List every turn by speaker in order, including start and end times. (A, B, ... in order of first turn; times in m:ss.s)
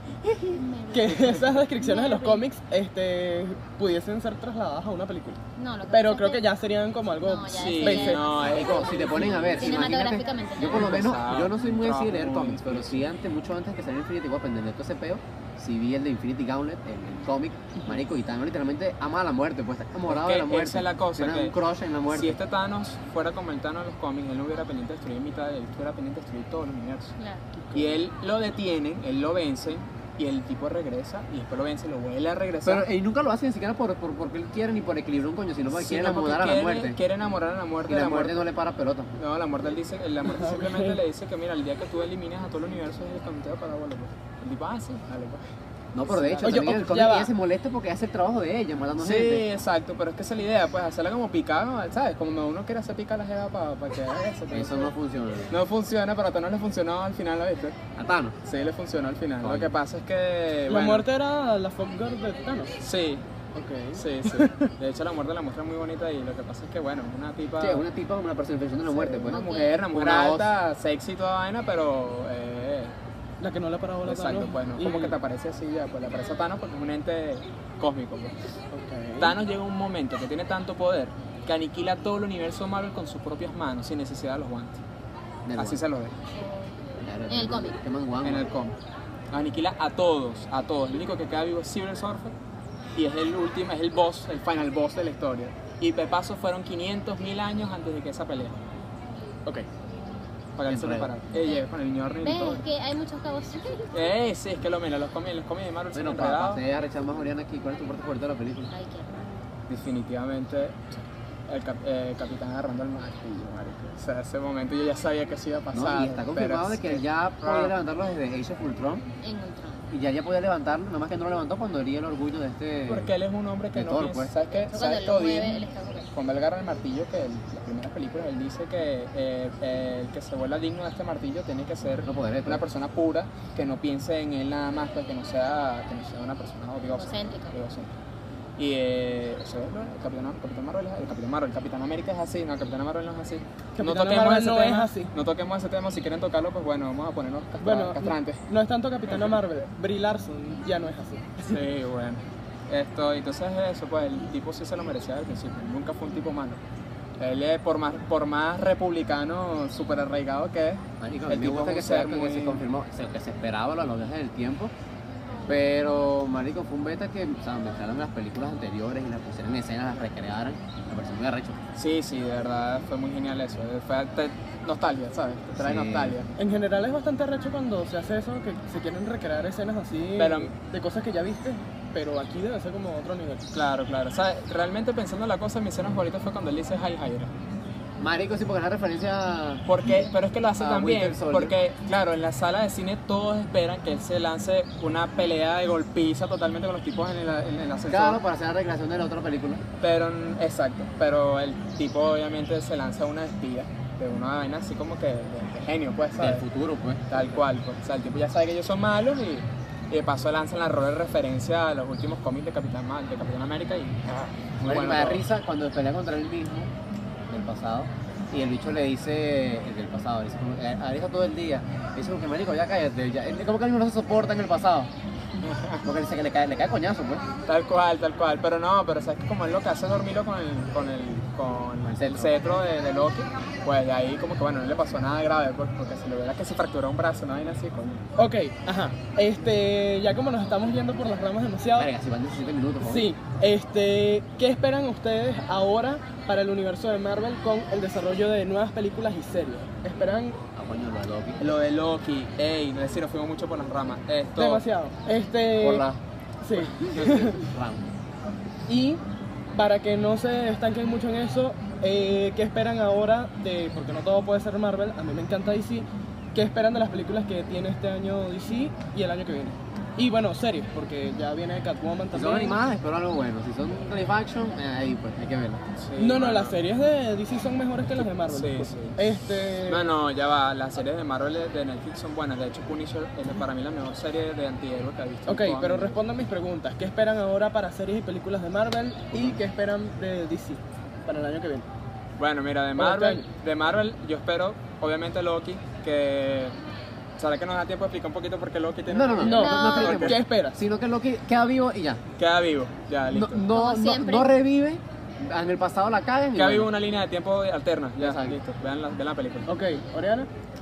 0:00.5-0:02.5 A
0:00.9-0:05.4 B
0:05.6-0:06.4 A
0:05.9-0:08.4 B
0:07.2-0:11.1 A
0:07.5-0:09.6 C
0:08.4-0:22.4 D
0:10.7-0:13.0 C
0:20.1-0:21.6 C
0:22.1-0:27.1 C
0:27.2-0:27.4 A
0:27.7-0:32.9 C
0:32.6-0:37.0 D
0:35.7-0:38.4 C
0:37.9-0:39.2 D
0:39.2-0:45.4 C
0:40.2-0:41.0 B
0:45.9-0:49.5 D
0:46.1-0:46.8 C
0:46.4-0:47.3 B
0:49.0-0:54.9 C
0:54.5-0:55.6 D
0:55.5-0:57.8 C
0:58.0-0:58.4 D
0:58.4-1:01.1 C
0:59.4-0:59.8 D
1:00.7-1:02.7 B
1:02.8-1:03.2 C
1:03.6-1:04.7 B
1:03.9-1:07.8 C
1:07.6-1:09.4 D
1:09.2-1:13.0 C
1:09.3-1:09.8 A
1:09.9-1:10.5 D
1:13.4-1:15.2 B
1:14.0-1:18.5 C
1:16.1-1:16.5 A
1:18.7-1:19.4 B
1:19.2-1:24.8 C
1:25.4-1:25.8 D
1:25.6-1:26.2 C
1:26.3-1:26.8 A
1:27.0-1:28.5 D
1:27.3-1:27.8 A
1:28.2-1:28.7 C
1:29.3-1:32.3 C
1:33.0-1:38.6 C
1:40.6-1:42.6 C
1:40.7-1:41.1 D
1:41.3-1:41.6 A
1:42.2-1:44.1 A
1:43.9-1:46.6 C
1:45.9-1:48.7 D
1:48.7-1:49.3 A
1:49.7-1:57.7 C
1:55.7-1:59.0 D
1:59.2-1:59.8 A
1:59.9-2:03.1 D
2:02.9-2:05.6 C
2:03.7-2:04.3 D
2:04.5-2:06.1 A
2:06.1-2:17.9 C
2:12.0-2:12.6 D
2:17.0-2:17.6 A
2:18.6-2:28.4 C
2:23.8-2:25.1 B
2:27.6-2:31.6 B
2:29.1-2:29.3 C
2:31.5-2:36.6 C
2:37.2-2:42.6 C
2:41.0-2:44.7 D
2:45.5-2:51.6 D
2:51.8-2:56.3 C
2:55.6-2:56.2 D
2:56.4-3:03.4 B
3:00.2-3:00.5 C
3:03.5-3:07.3 C
3:08.0-3:09.9 D
3:09.6-3:18.2 C
3:10.6-3:11.6 D
3:17.9-3:19.6 D
3:19.8-3:26.4 C
3:26.2-3:27.4 D
3:27.1-3:34.1 C
3:34.6-3:35.2 C
3:34.6-3:36.7 D
3:37.3-3:44.9 D
3:45.4-3:45.8 C
3:45.8-3:47.2 D
3:47.5-3:58.0 C
3:51.8-3:52.4 D
3:58.2-4:01.9 B
4:01.8-4:03.1 D
4:02.8-4:10.4 B
4:10.5-4:11.4 D
4:11.4-4:14.6 C
4:14.4-4:15.8 B
4:15.6-4:16.0 D
4:16.4-4:17.5 B
4:16.8-4:17.9 D
4:18.7-4:19.0 B
4:19.5-4:32.6 B
4:32.1-4:35.6 D
4:35.8-4:36.6 C
4:36.0-4:39.9 B
4:38.0-4:46.0 C
4:45.3-4:51.7 B
4:52.2-4:56.5 C
4:52.8-4:53.2 B
4:57.2-5:00.2 C
4:58.9-5:02.0 D
4:59.2-5:00.6 B
4:59.2-5:00.1 A
5:02.2-5:03.5 C
5:03.1-5:06.7 D
5:03.5-5:04.3 A
5:06.4-5:09.6 C
5:08.0-5:08.4 D
5:09.5-5:10.3 B